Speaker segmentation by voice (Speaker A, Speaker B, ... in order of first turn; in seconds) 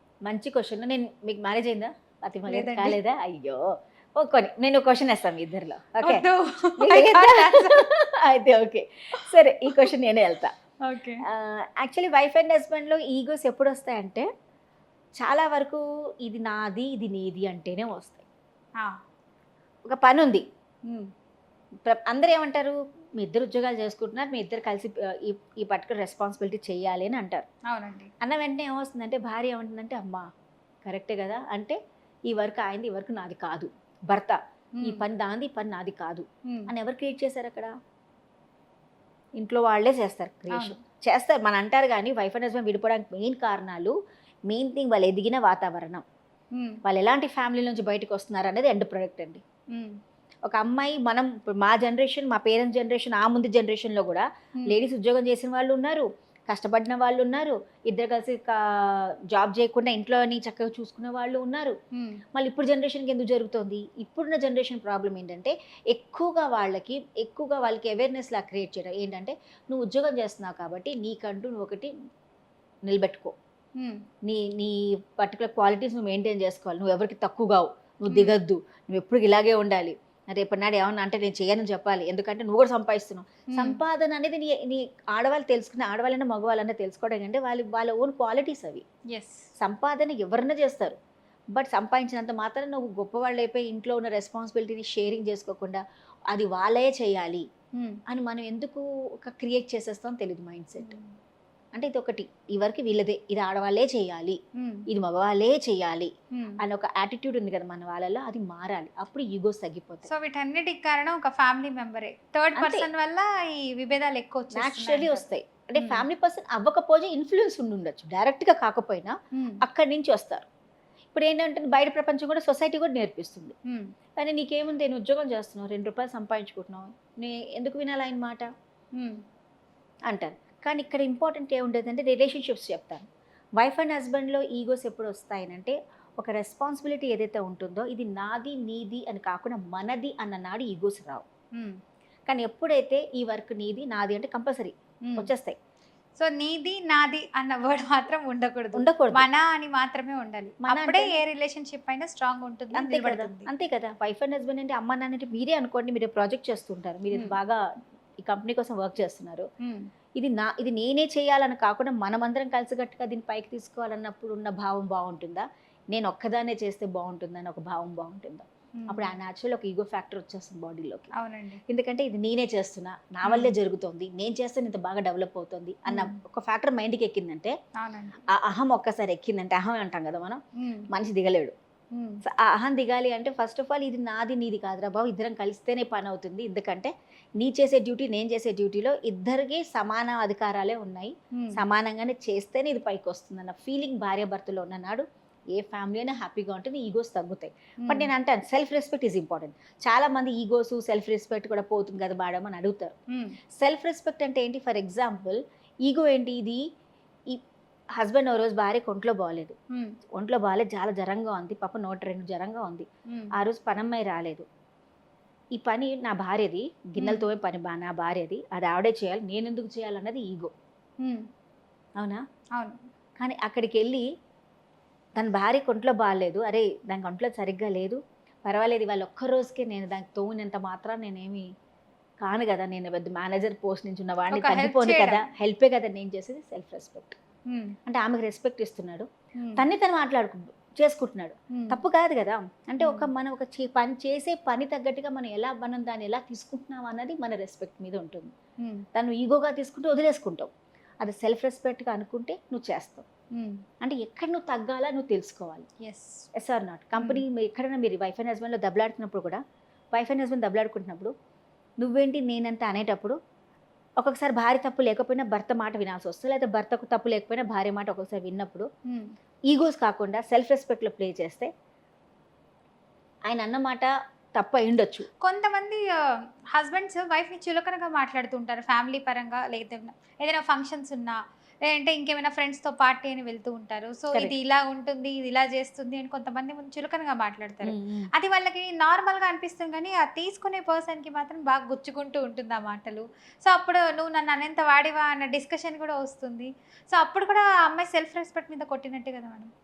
Speaker A: 0.2-3.6, 4.2-6.2, 6.8-10.5, 11.2-14.3, 15.2-18.2, 19.9-20.4, 21.9-27.4, 28.2-30.2, 30.8-31.8, 32.3-37.7, 39.4-43.9, 44.5-46.0, 46.8-49.4, 50.5-61.7, 62.3-71.9, 72.9-73.3, 74.2-88.8, 89.6-91.0, 91.5-97.5, 98.1-100.9, 101.7-110.1, 112.5-112.9, 114.5-120.5, 121.1-123.5, 124.2-128.5, 130.1-133.0, 133.6-141.2, 142.3-145.6, 148.8-149.2, 150.6-151.1, 152.7-157.6, 158.2-159.5, 160.2-171.1, 171.7-177.5, 178.3-181.5, 182.2-202.9, 203.6-206.6, 208.0-209.6, 210.2-214.4, 215.5-220.5, 223.2-224.0, 225.2-231.5, 232.2-237.2, 237.8-248.3, 248.9-250.5, 251.0-253.1, 253.8-255.7, 256.4-259.4, 259.9-261.1, 261.8-263.2, 264.0-268.7, 269.5-271.5, 273.3-275.1, 287.6-288.1
Speaker B: 2.5-3.0, 6.0-7.8, 9.7-9.9, 10.8-11.2, 27.7-28.1, 36.5-36.7, 46.5-46.8, 61.9-62.2, 73.8-74.0, 83.5-83.8, 89.1-89.5, 100.8-101.1, 104.5-104.9, 106.3-106.6, 110.0-115.2, 115.8-116.0, 119.3-119.6, 128.9-129.2, 146.2-153.5, 168.8-169.1, 171.1-171.6, 173.2-173.5, 175.9-176.2, 177.8-178.2, 180.6-180.9, 181.9-182.2, 191.3-191.6, 197.8-198.1, 203.1-203.3, 217.0-217.2, 221.0-221.2, 234.3-235.2, 237.5-237.8, 239.4-239.7, 241.5-241.8, 242.8-243.1, 253.3-253.6, 255.8-256.2, 256.9-257.2, 268.9-269.1, 275.2-275.8, 276.5-299.5